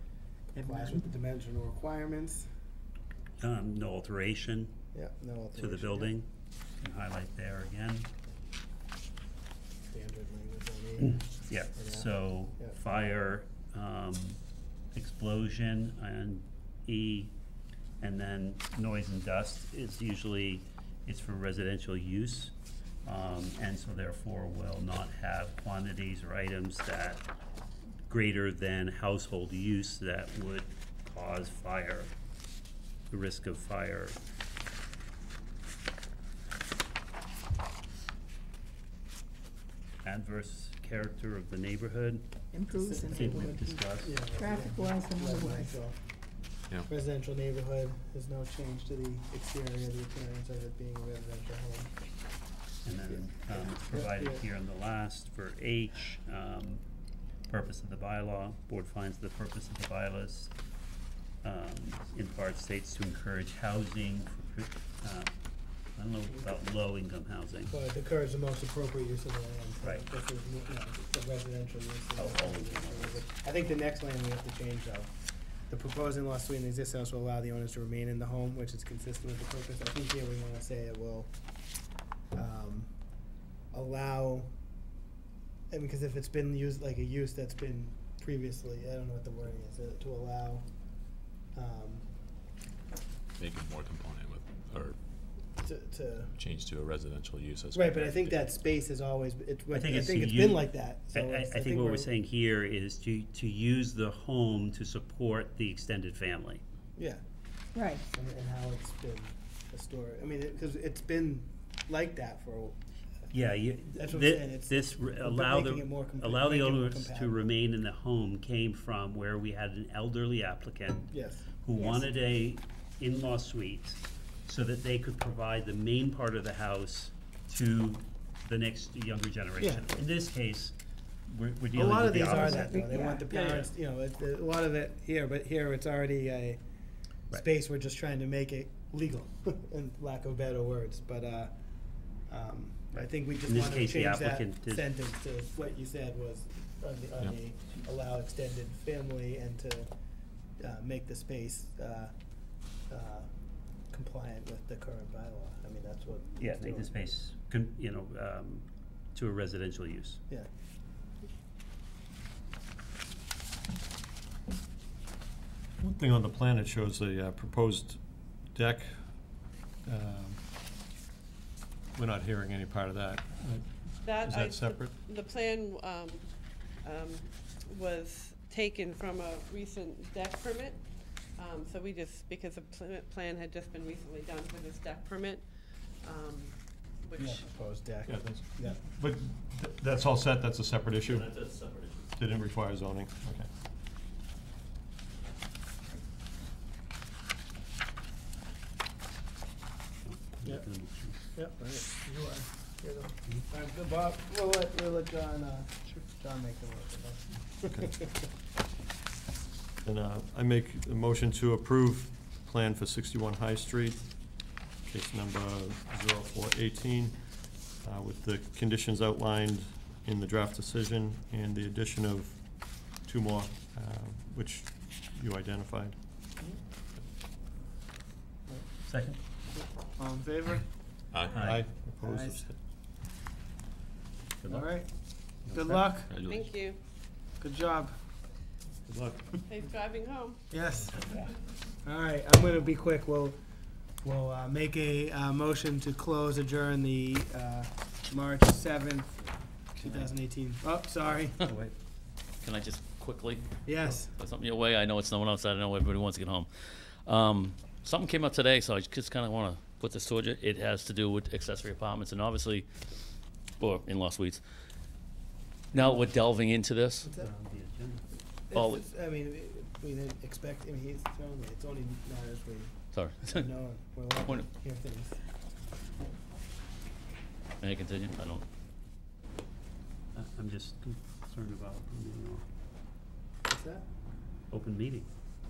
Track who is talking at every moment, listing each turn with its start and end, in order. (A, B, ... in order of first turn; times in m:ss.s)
0:00.5-0:02.4 A
0:00.7-0:01.0 B
0:03.4-0:04.7 C
0:04.9-0:06.1 A
0:05.5-0:06.3 C
0:06.8-0:08.1 C
0:09.9-0:12.8 A
0:11.0-0:14.4 C
0:14.9-0:17.3 C
0:18.0-0:22.5 C
0:23.0-0:27.3 C
0:28.1-0:32.1 C
0:33.1-0:34.2 C
0:40.0-0:42.2 C
0:42.5-0:45.8 B
0:42.8-0:46.0 A
0:42.9-0:44.2 C
0:46.8-0:51.9 A
0:52.8-0:56.8 C
0:53.1-0:54.4 A
0:57.5-1:00.5 C
1:01.4-1:05.3 C
1:06.0-1:07.7 C
1:07.7-1:15.1 A
1:09.8-1:10.1 C
1:12.1-1:13.3 C
1:15.7-1:21.3 A
1:22.3-1:22.9 A
1:23.7-1:24.5 A
1:25.7-1:30.7 A
1:31.5-1:32.0 A
1:33.4-1:35.0 D
1:35.6-1:36.3 A
1:36.3-1:38.6 D
1:37.7-1:42.1 A
1:39.7-1:46.6 C
1:47.0-1:47.2 A
1:47.7-1:48.0 B
1:48.1-1:52.8 A
1:53.3-2:10.7 C
1:53.9-1:57.5 A
2:01.1-2:01.4 A
2:09.6-2:10.0 A
2:11.3-2:13.7 C
2:11.7-2:16.6 A
2:12.3-2:13.3 B
2:17.3-2:21.5 A
2:22.3-2:29.9 A
2:22.9-2:24.9 C
2:30.6-2:32.1 A
2:32.9-2:33.3 A
2:33.9-2:37.0 A
2:36.4-2:40.2 C
2:45.8-2:48.0 E
2:48.5-2:49.0 E
2:49.8-2:50.4 E
2:51.9-2:54.9 E
2:54.0-2:56.3 F
2:56.8-3:00.8 F
3:01.4-3:05.4 F
3:06.0-3:07.4 F
3:07.2-3:08.8 A
3:08.0-3:11.5 E
3:11.0-3:12.1 G
3:12.2-3:13.5 E
3:20.0-3:21.2 C
3:21.2-3:28.3 A
3:29.8-3:46.0 E
3:48.8-3:49.2 C
3:49.5-3:50.7 A
3:51.1-3:51.6 D
3:51.3-3:51.6 C
3:51.3-3:52.6 E
3:52.0-3:52.4 A
3:54.4-3:54.8 C
3:54.5-3:56.1 A
3:55.5-3:55.9 E
3:56.1-3:56.4 G
3:56.2-3:56.8 F
3:57.4-3:57.9 A
3:58.9-3:59.3 E
3:59.5-4:00.4 F
4:00.5-4:01.2 A
4:01.8-4:03.4 A
4:04.0-4:11.4 A
4:09.8-4:10.1 G
4:11.4-4:11.7 C
4:12.4-4:22.7 G
4:13.6-4:14.1 A
4:23.6-4:24.4 G
4:25.7-4:27.0 G
4:27.0-4:27.3 A
4:27.1-4:28.1 C
4:28.5-4:32.7 A
4:28.5-4:28.8 G
4:32.9-4:33.5 G
4:33.3-4:35.2 A
4:37.6-4:38.4 G
4:40.1-4:42.4 C
4:43.5-4:43.8 A
4:44.5-4:45.1 C